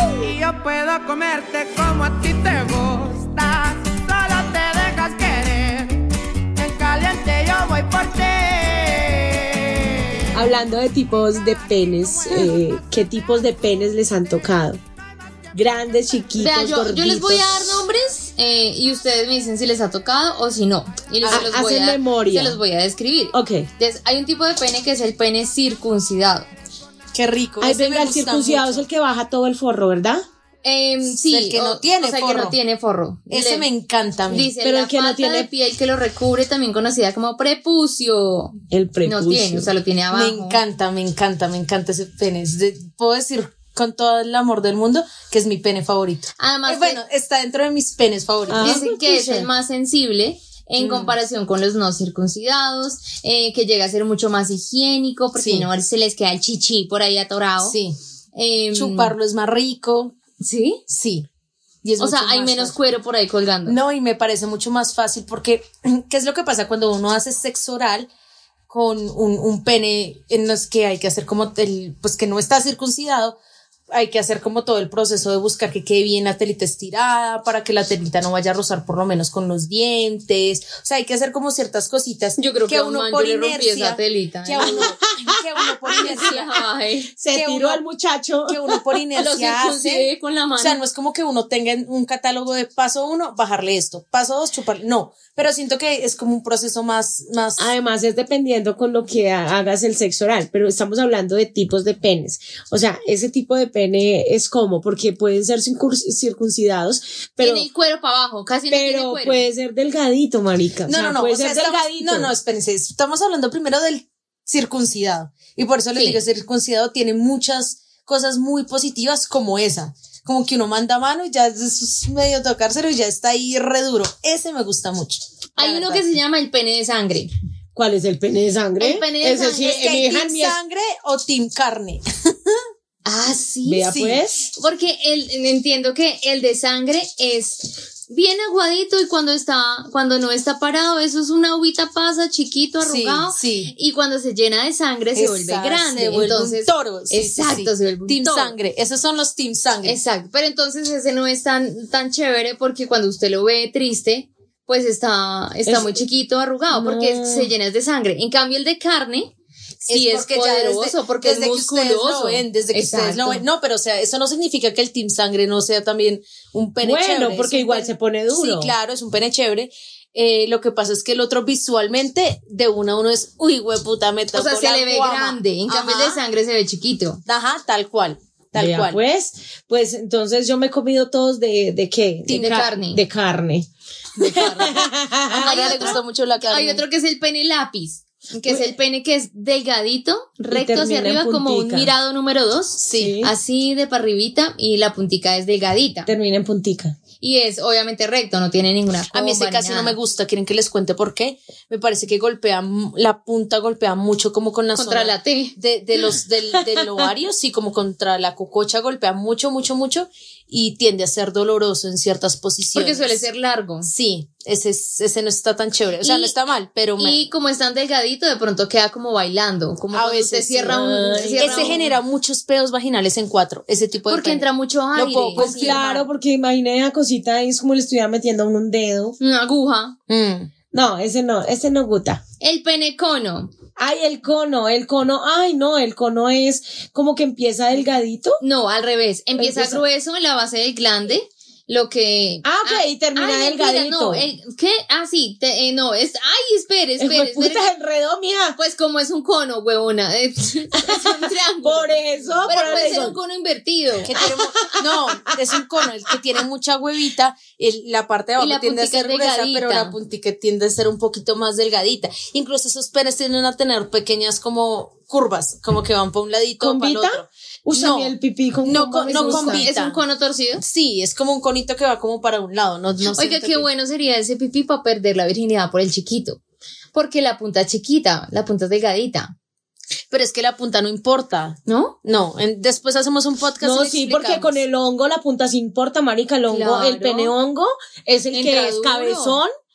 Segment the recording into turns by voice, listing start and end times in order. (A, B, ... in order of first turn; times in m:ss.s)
0:00.2-0:10.4 A
0:10.3-0:14.8 B
0:15.5-0:17.8 B
0:16.4-0:26.4 C
0:21.2-0:21.5 D
0:21.3-0:22.6 B
0:23.3-0:23.7 B
0:27.1-0:28.9 D
0:27.6-0:30.2 B
0:30.6-0:33.7 C
0:31.2-0:32.6 D
0:33.3-0:34.5 D
0:34.3-0:40.6 C
0:34.6-0:35.5 B
0:38.7-0:39.7 B
0:40.1-0:49.2 D
0:46.4-0:47.0 C
0:48.5-0:49.4 B
0:48.6-0:57.8 C
0:50.8-0:51.2 D
0:55.4-0:55.7 D
0:57.6-0:58.0 D
0:58.4-0:59.1 C
0:58.7-1:00.2 D
1:00.4-1:00.8 C
1:00.9-1:01.3 D
1:01.8-1:02.8 D
1:02.0-1:03.8 C
1:03.6-1:08.1 D
1:08.7-1:13.4 D
1:13.9-1:26.5 D
1:22.4-1:24.9 C
1:24.6-1:26.5 B
1:25.9-1:27.1 C
1:27.1-1:28.8 B
1:27.3-1:27.8 D
1:28.4-1:37.7 D
1:29.2-1:30.8 C
1:37.6-1:47.7 B
1:47.4-1:49.4 C
1:48.7-1:52.3 B
1:50.8-2:06.1 D
2:05.6-2:07.3 C
2:07.8-2:10.6 B
2:08.8-2:10.0 C
2:09.5-2:12.6 D
2:13.1-2:13.9 C
2:13.6-2:14.5 B
2:13.9-2:14.2 D
2:14.6-2:28.5 C
2:22.8-2:23.7 D
2:25.2-2:30.0 D
2:29.8-2:39.3 C
2:35.7-2:36.1 B
2:36.7-2:37.5 B
2:39.8-2:43.4 C
2:39.9-2:56.2 D
2:42.9-2:43.2 B
2:46.8-2:48.7 B
2:54.3-2:57.2 C
2:57.2-2:59.0 D
2:58.6-3:03.7 B
3:02.2-3:02.8 D
3:02.3-3:03.0 C
3:04.2-3:16.1 C
3:04.2-3:05.9 B
3:05.3-3:06.8 D
3:10.5-3:11.9 B
3:12.8-3:13.2 D
3:12.9-3:13.3 B
3:16.1-3:17.0 B
3:17.2-3:20.0 C
3:19.1-3:33.2 D
3:24.8-3:25.6 C
3:32.8-3:33.9 C
3:33.8-3:37.2 D
3:36.0-3:36.3 C
3:37.0-3:42.0 C
3:39.9-3:46.0 D
3:40.7-3:41.8 B
3:44.1-3:46.0 C
3:45.3-3:49.2 B
3:49.2-3:50.0 C
3:50.1-3:50.5 D
3:50.7-3:52.2 B
3:52.4-3:53.5 C
3:53.8-3:58.4 B
3:58.4-4:07.7 C
3:59.4-3:59.8 B
4:02.4-4:04.3 B
4:07.0-4:08.6 B
4:08.6-4:14.1 C
4:10.8-4:13.2 B
4:12.5-4:13.0 D
4:14.0-4:30.0 D
4:14.2-4:14.8 B
4:18.4-4:20.0 C
4:26.6-4:29.7 B
4:29.1-4:30.6 C
4:30.6-4:33.7 D
4:33.1-4:36.4 C
4:36.9-4:39.3 C
4:40.1-4:44.6 D
4:41.7-4:42.0 C
4:43.6-4:49.5 B
4:46.5-4:47.3 C
4:48.3-4:49.4 C